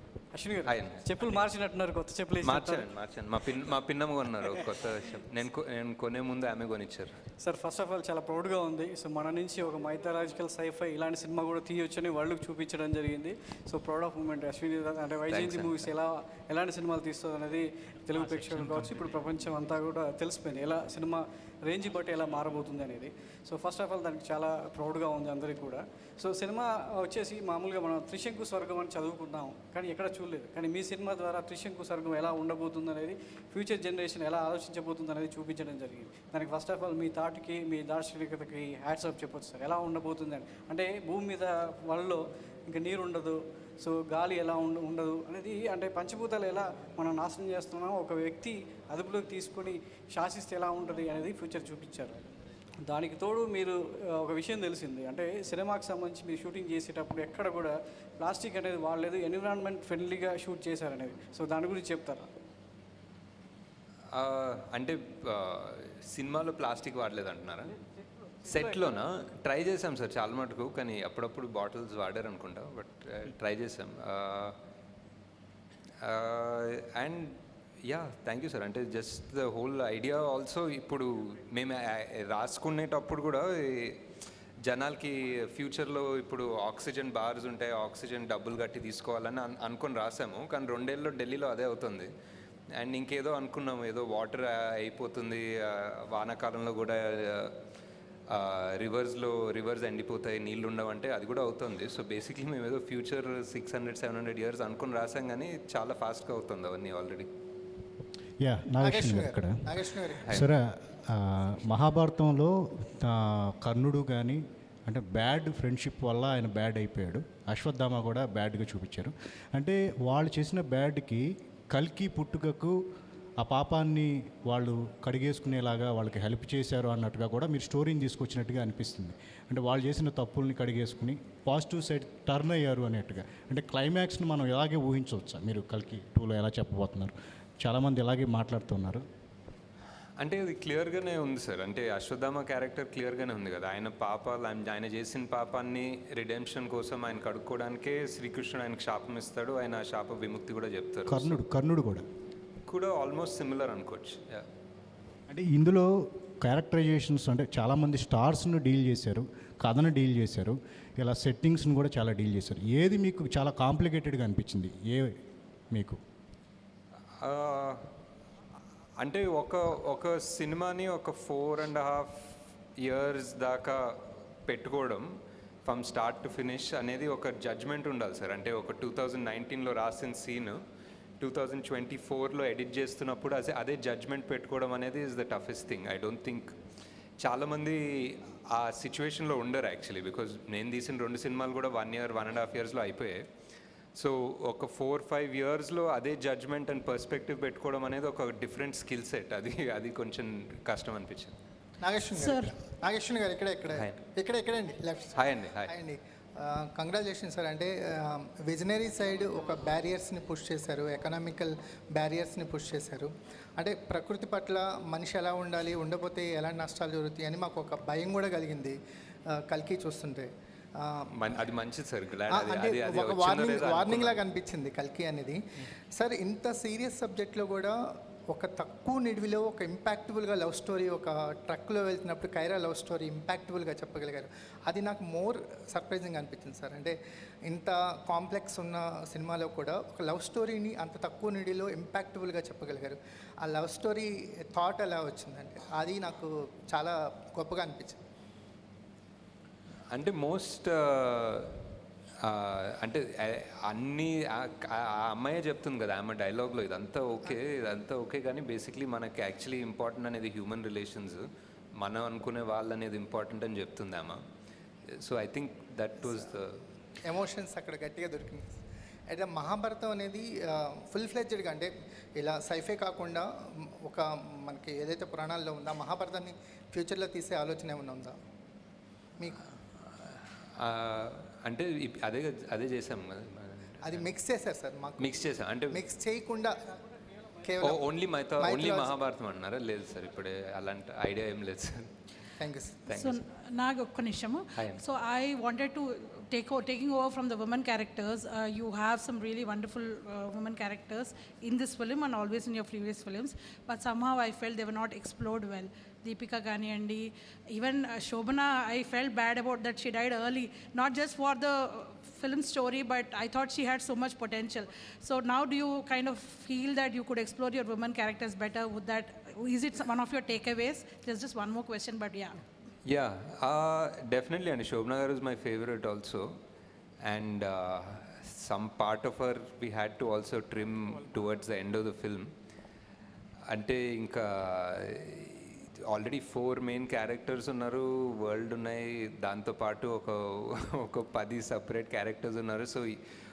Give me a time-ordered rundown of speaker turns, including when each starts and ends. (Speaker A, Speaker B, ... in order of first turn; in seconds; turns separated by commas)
Speaker A: 0.3-2.9, Speaker B: 0.7-1.4, Speaker B: 2.4-7.2, Speaker A: 7.4-52.2, Speaker B: 15.3-15.9, Speaker A: 52.8-62.3, Speaker B: 64.1-67.7, Speaker B: 68.4-74.6, Speaker B: 76.0-84.0, Speaker B: 84.6-92.1, Speaker B: 92.7-97.6, Speaker B: 98.3-107.3, Speaker C: 108.4-122.8, Speaker D: 108.8-110.4, Speaker C: 123.4-139.0, Speaker B: 140.2-151.3, Speaker C: 151.1-152.0, Speaker B: 152.7-154.5, Speaker C: 155.3-155.9, Speaker C: 156.4-165.2, Speaker C: 165.7-166.0, Speaker B: 167.2-167.9, Speaker B: 169.0-180.6, Speaker B: 181.2-186.6, Speaker B: 187.2-193.3, Speaker B: 193.9-201.3, Speaker D: 201.8-218.8, Speaker E: 202.2-202.6, Speaker B: 205.1-205.7, Speaker D: 219.3-221.1, Speaker B: 221.1-224.2, Speaker D: 222.3-227.8, Speaker D: 228.3-236.9, Speaker D: 237.5-248.0, Speaker B: 249.9-251.6, Speaker B: 252.2-264.2, Speaker B: 264.9-266.6, Speaker D: 267.1-268.6, Speaker D: 269.1-278.1, Speaker B: 280.0-284.1, Speaker D: 283.8-285.1, Speaker B: 285.0-285.8, Speaker D: 285.7-286.5, Speaker D: 287.4-287.8, Speaker B: 287.6-291.9, Speaker D: 288.4-288.9, Speaker D: 292.4-292.8, Speaker B: 292.9-293.2, Speaker E: 292.9-322.4, Speaker B: 294.6-294.8, Speaker B: 322.8-326.4, Speaker B: 327.0-332.3, Speaker B: 333.5-343.0